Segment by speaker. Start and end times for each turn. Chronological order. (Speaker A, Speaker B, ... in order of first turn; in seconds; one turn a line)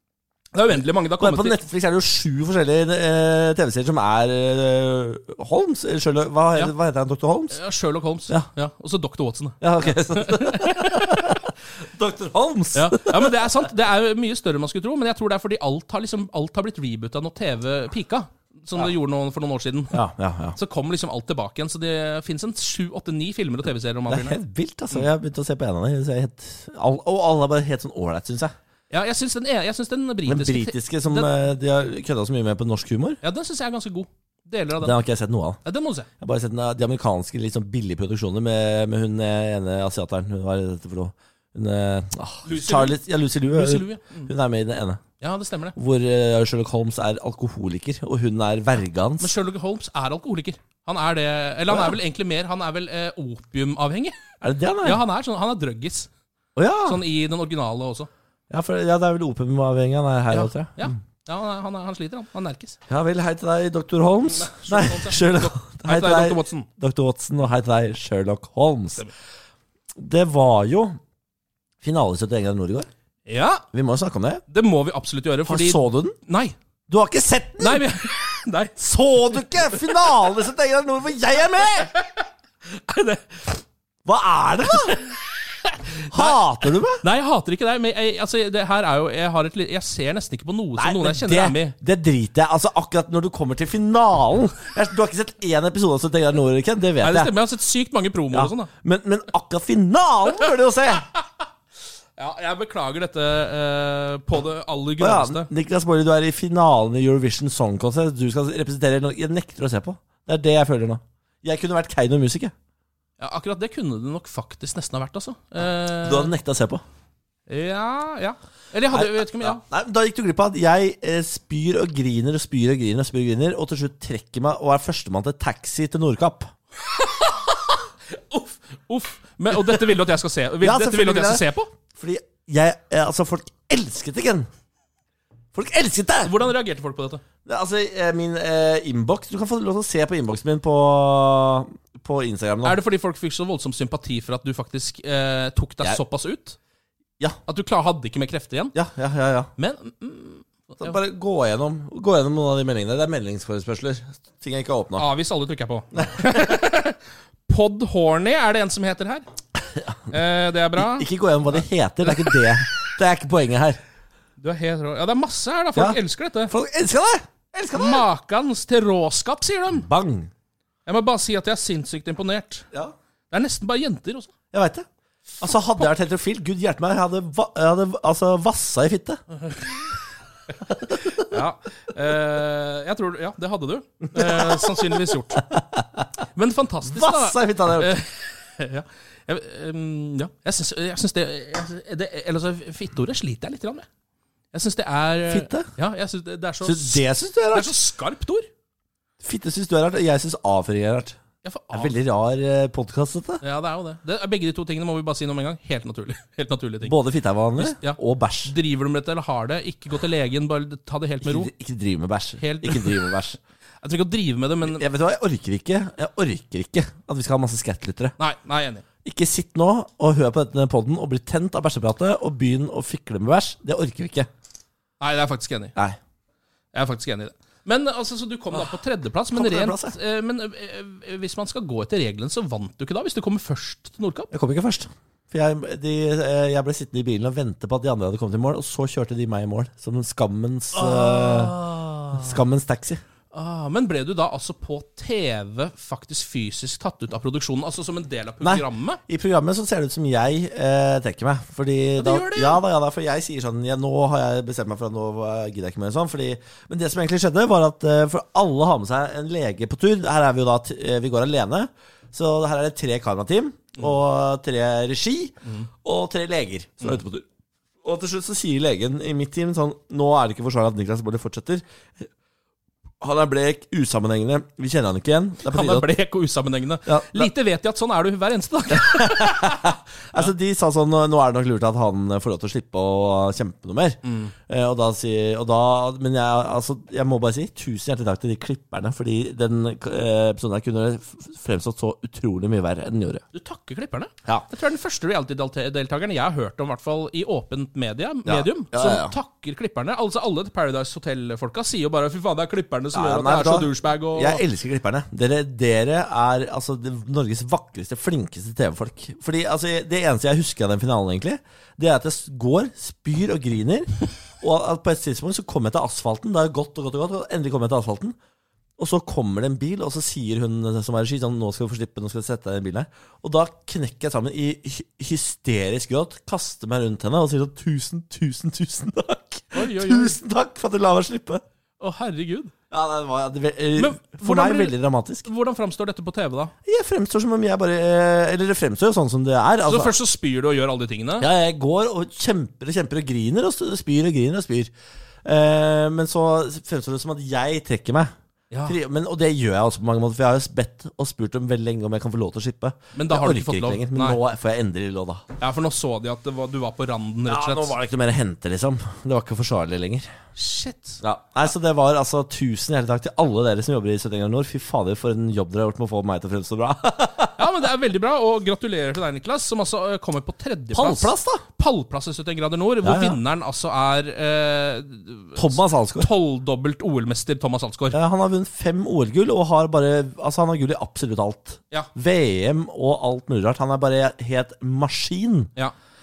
Speaker A: 0.5-1.7
Speaker B: 1.2-7.6
Speaker A: 7.5-11.5
Speaker B: 9.6-13.7
Speaker A: 12.8-20.0
Speaker B: 19.9-20.6
Speaker A: 20.6-24.4
Speaker B: 24.1-28.5
Speaker A: 28.9-31.4
Speaker B: 30.2-33.2
Speaker A: 33.2-35.0
Speaker B: 34.8-35.6
Speaker A: 35.6-36.1
Speaker B: 36.2-45.0
Speaker A: 42.4-44.3
Speaker A: 45.2-45.8
Speaker B: 45.8-49.3
Speaker A: 49.2-54.1
Speaker B: 51.7-52.0
Speaker B: 54.4-55.0
Speaker A: 54.8-56.1
Speaker B: 56.5-57.0
Speaker A: 56.8-58.1
Speaker B: 58.5-60.9
Speaker A: 60.3-62.8
Speaker B: 62.9-69.1
Speaker A: 64.3-66.7
Speaker B: 70.0-71.0
Speaker B: 71.8-72.9
Speaker A: 73.3-73.6
Speaker B: 73.7-74.4
Speaker A: 74.5-76.5
Speaker B: 75.4-76.2
Speaker B: 76.9-77.9
Speaker A: 77.6-78.8
Speaker B: 78.8-81.9
Speaker A: 79.3-80.2
Speaker A: 81.6-83.6
Speaker B: 84.0-85.0
Speaker A: 84.7-86.4
Speaker B: 86.1-87.0
Speaker A: 87.0-91.8
Speaker B: 90.8-97.3
Speaker A: 97.0-98.7
Speaker B: 98.3-101.0
Speaker A: 100.4-101.4
Speaker A: 102.2-105.5
Speaker B: 105.0-112.5
Speaker A: 113.2-116.3
Speaker B: 116.0-116.8
Speaker A: 117.5-119.6
Speaker B: 118.9-126.5
Speaker A: 126.8-131.7
Speaker B: 129.6-129.9
Speaker B: 130.6-134.5
Speaker B: 135.5-136.4
Speaker A: 136.2-137.2
Speaker B: 137.4-142.8
Speaker A: 142.6-146.6
Speaker A: 147.5-148.8
Speaker B: 148.8-149.5
Speaker A: 149.6-150.9
Speaker B: 150.8-155.1
Speaker A: 155.0-159.2
Speaker B: 156.0-156.5
Speaker B: 159.8-160.1
Speaker A: 160.1-162.4
Speaker B: 160.8-163.8
Speaker A: 164.4-166.5
Speaker B: 165.8-168.1
Speaker A: 167.7-169.9
Speaker B: 169.7-170.3
Speaker A: 170.9-172.7
Speaker A: 173.3-174.3
Speaker B: 174.5-174.9
Speaker B: 175.4-179.2
Speaker A: 179.4-179.9
Speaker A: 181.1-185.5
Speaker B: 184.1-186.0
Speaker A: 186.3-193.9
Speaker B: 186.8-188.0
Speaker A: 194.5-198.5
Speaker B: 195.2-195.7
Speaker B: 196.6-197.7
Speaker B: 199.2-201.2
Speaker A: 201.4-201.9
Speaker B: 201.7-203.4
Speaker A: 203.4-206.9
Speaker B: 206.8-208.5
Speaker A: 207.6-211.5
Speaker B: 211.2-213.4
Speaker A: 212.4-213.2
Speaker A: 213.8-214.8
Speaker B: 214.6-218.2
Speaker A: 218.2-218.8
Speaker B: 219.0-224.3
Speaker A: 225.0-225.8
Speaker A: 226.7-234.3
Speaker B: 229.3-230.0
Speaker B: 234.3-241.6
Speaker A: 240.7-242.4
Speaker B: 242.1-243.0
Speaker A: 243.3-249.0
Speaker B: 248.4-265.3
Speaker A: 252.0-252.6
Speaker A: 265.4-265.7
Speaker B: 265.8-267.3
Speaker B: 267.8-271.6
Speaker B: 273.0-275.9
Speaker A: 275.4-280.3
Speaker B: 276.9-277.3
Speaker B: 278.7-293.2
Speaker A: 284.0-284.3
Speaker A: 293.3-304.4
Speaker B: 298.2-299.1
Speaker B: 302.9-318.1
Speaker B: 318.8-331.4
Speaker A: 329.5-330.2
Speaker A: 331.8-332.5
Speaker B: 332.7-335.3
Speaker A: 333.8-336.5
Speaker B: 336.6-340.0
Speaker A: 339.6-341.3
Speaker B: 341.2-344.7
Speaker B: 345.2-348.1
Speaker A: 348.5-348.8
Speaker B: 348.6-355.2
Speaker A: 352.9-354.2
Speaker A: 355.4-357.8
Speaker B: 357.2-360.1
Speaker A: 360.4-361.0
Speaker B: 361.0-367.5
Speaker A: 367.4-378.0
Speaker B: 370.7-371.4
Speaker B: 372.8-373.2
Speaker B: 375.4-376.1
Speaker B: 377.9-385.5